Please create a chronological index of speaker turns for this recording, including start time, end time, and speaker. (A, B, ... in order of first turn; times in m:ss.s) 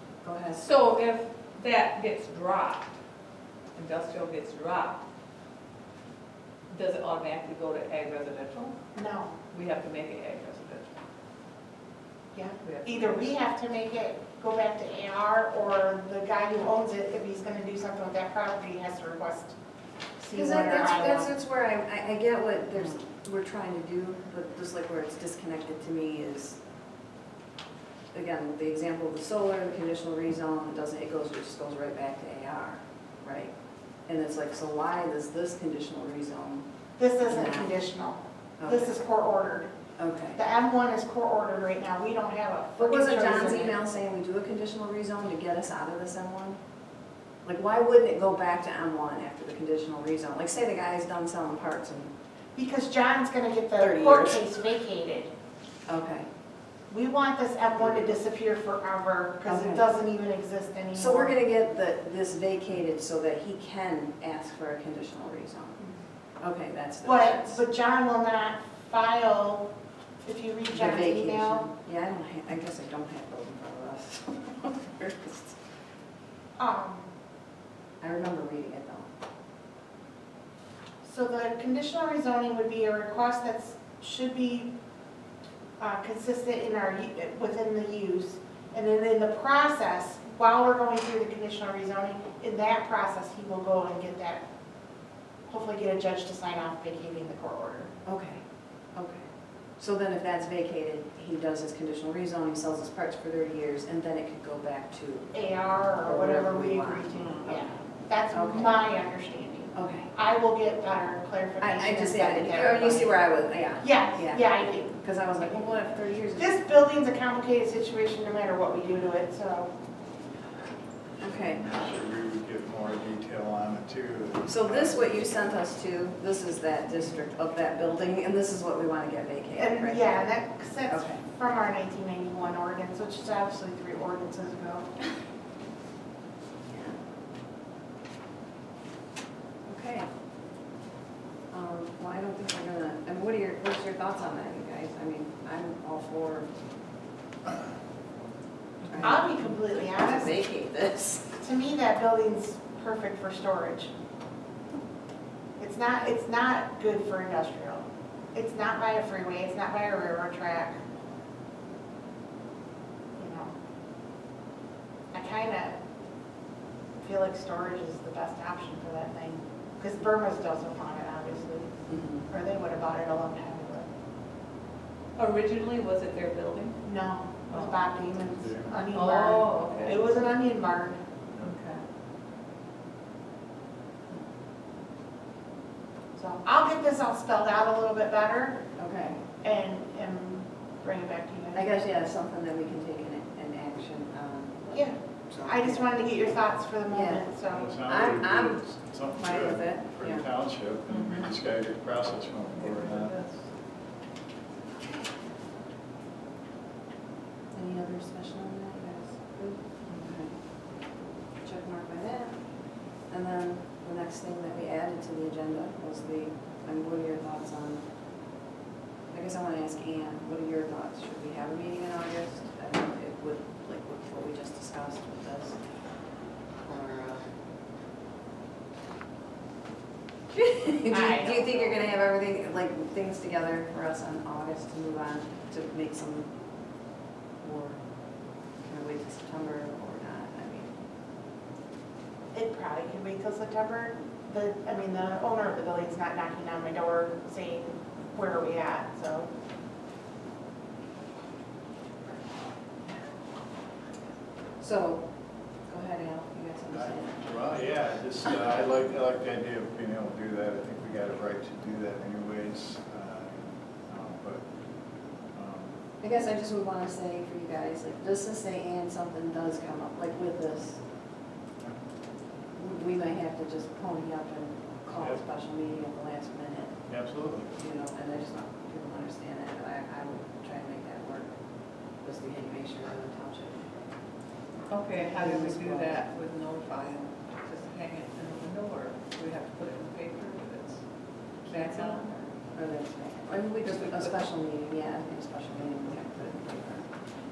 0:00.2-0:00.6 A
0:00.5-0:02.9 B
0:03.8-0:05.0 B
0:06.7-0:08.8 B
0:09.0-0:09.3 C
0:09.5-0:10.9 B
0:12.3-0:19.6 C
0:12.6-0:13.3 B
0:20.2-0:21.3 C
0:20.3-0:26.6 A
0:28.1-0:33.5 A
0:34.1-0:36.7 A
0:37.0-0:39.7 C
0:37.2-0:37.7 A
0:38.6-0:39.0 A
0:40.0-0:40.4 A
0:40.4-0:43.8 C
0:42.8-0:46.6 A
0:47.4-0:52.1 A
0:52.6-0:55.3 C
0:53.8-0:54.4 A
0:55.9-0:56.3 A
0:56.9-1:01.4 C
0:59.4-0:59.9 A
1:00.9-1:05.8 A
1:06.4-1:07.6 A
1:07.0-1:09.7 C
1:10.2-1:11.7 C
1:10.7-1:15.6 A
1:16.6-1:17.1 C
1:18.0-1:19.1 A
1:21.0-1:24.7 C
1:25.8-1:34.4 C
1:35.5-1:37.9 C
1:38.0-1:38.4 A
1:38.9-1:45.3 A
1:45.3-1:53.1 C
1:46.0-1:47.1 A
1:47.1-1:47.6 B
1:48.3-1:48.9 A
1:49.8-1:50.1 A
1:51.6-1:56.6 A
1:53.8-1:55.0 C
1:56.4-1:59.7 C
2:01.2-2:01.6 A
2:01.4-2:05.6 D
2:04.4-2:10.3 A
2:09.6-2:14.9 C
2:10.9-2:11.2 A
2:16.7-2:17.0 A
2:19.7-2:20.1 A
2:21.5-2:26.5 A
2:28.8-2:29.2 B
2:28.9-2:31.4 A
2:29.0-2:30.4 C
2:31.4-2:33.9 C
2:35.6-2:37.8 C
2:38.3-2:40.8 C
2:43.2-2:43.5 C
2:45.1-2:45.8 C
2:47.0-2:53.9 C
2:51.9-2:52.3 A
2:55.2-2:56.8 B
2:56.8-3:01.0 C
2:57.5-2:57.8 B
2:58.1-2:58.9 D
2:58.9-3:00.1 B
3:01.4-3:01.8 B
3:06.2-3:08.7 C
3:08.8-3:09.2 A
3:09.4-3:11.7 C
3:11.5-3:17.3 A
3:14.7-3:17.7 C
3:17.4-3:23.2 D
3:17.8-3:18.6 A
3:19.2-3:20.2 A
3:20.9-3:21.3 B
3:22.6-3:23.5 B
3:27.5-3:37.8 A
3:29.9-3:30.1 B
3:39.1-3:45.6 A
3:46.7-3:47.2 A
3:50.3-3:56.3 A
3:50.9-3:51.9 C
3:57.4-3:57.8 A
3:58.6-4:00.7 A
4:02.3-4:09.3 C
4:14.6-4:17.2 A
4:16.7-4:24.4 D
4:25.3-4:25.7 D
4:26.0-4:30.8 A
4:32.6-4:36.9 A
4:35.0-4:35.2 D
4:36.9-4:37.5 D
4:37.6-4:43.7 A
4:44.7-4:52.2 B
4:44.9-4:46.0 A
4:51.4-4:57.1 A
4:53.6-4:54.2 B